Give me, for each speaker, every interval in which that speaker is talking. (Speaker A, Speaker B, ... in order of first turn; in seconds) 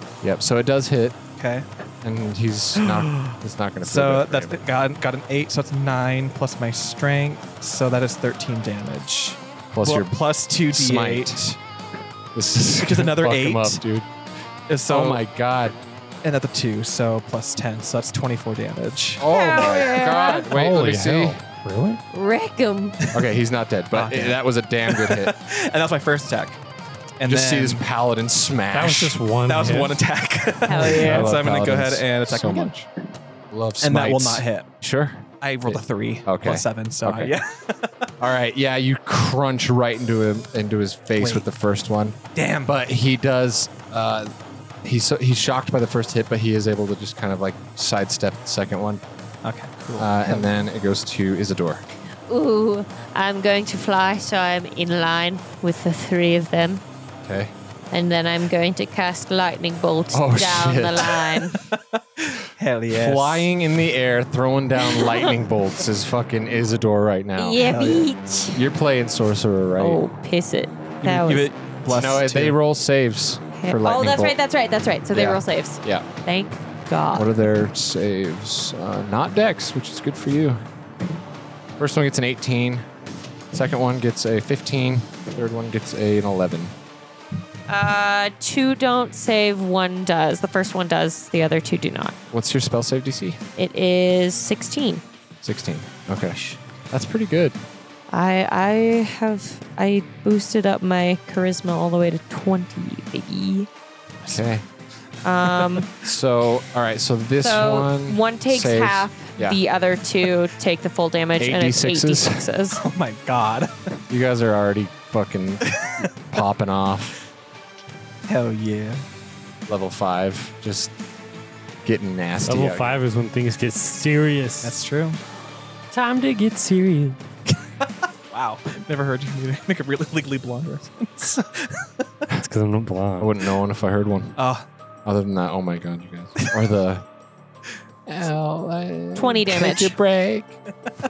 Speaker A: 0.2-1.2, 2.0-4.6, 9.7-11.5, 12.3-14.1, 14.9-15.8, 19.2-21.4, 23.1-25.4, 27.2-29.2, 30.7-32.9, 33.5-37.3, 38.2-44.3, 44.8-49.0, 50.0-51.9, 57.2-57.5, 60.1-61.2, 62.9-67.7, 68.5-70.0, 71.9-74.3, 75.1-76.0, 77.1-80.6, 81.8-82.8, 83.5-86.7, 92.3-93.4, 95.4-97.6, 104.2-104.6, 106.0-109.6, 111.4-112.5, 114.1-117.2, 119.7-120.9, 121.8-123.0, 133.2-134.4, 135.0-137.1, 138.1-140.6
Speaker B: 1.4-1.6, 2.8-11.6, 12.7-13.8, 14.7-15.2, 16.2-19.2, 23.9-26.6, 27.2-27.8, 29.4-32.7, 33.8-34.7, 35.4-38.1, 41.2-41.4, 42.3-42.7, 49.4-50.6, 61.5-63.5, 67.6-68.1, 71.0-72.6, 112.8-114.0, 115.7-116.1, 118.3-119.0, 124.6-125.2, 127.8-132.1, 134.4-134.7
Speaker C: 19.3-20.5, 22.1-22.9, 30.6-31.3, 52.3-56.8, 57.9-61.6, 65.0-65.3, 67.3-68.6, 69.8-71.5, 73.5-77.3, 87.7-92.2, 93.6-95.0, 98.1-103.7, 105.2-105.9, 107.4-112.8, 139.1-139.9
Speaker D: 20.5-22.0, 28.7-30.0
Speaker E: 122.5-124.8, 125.9-127.2, 132.3-133.3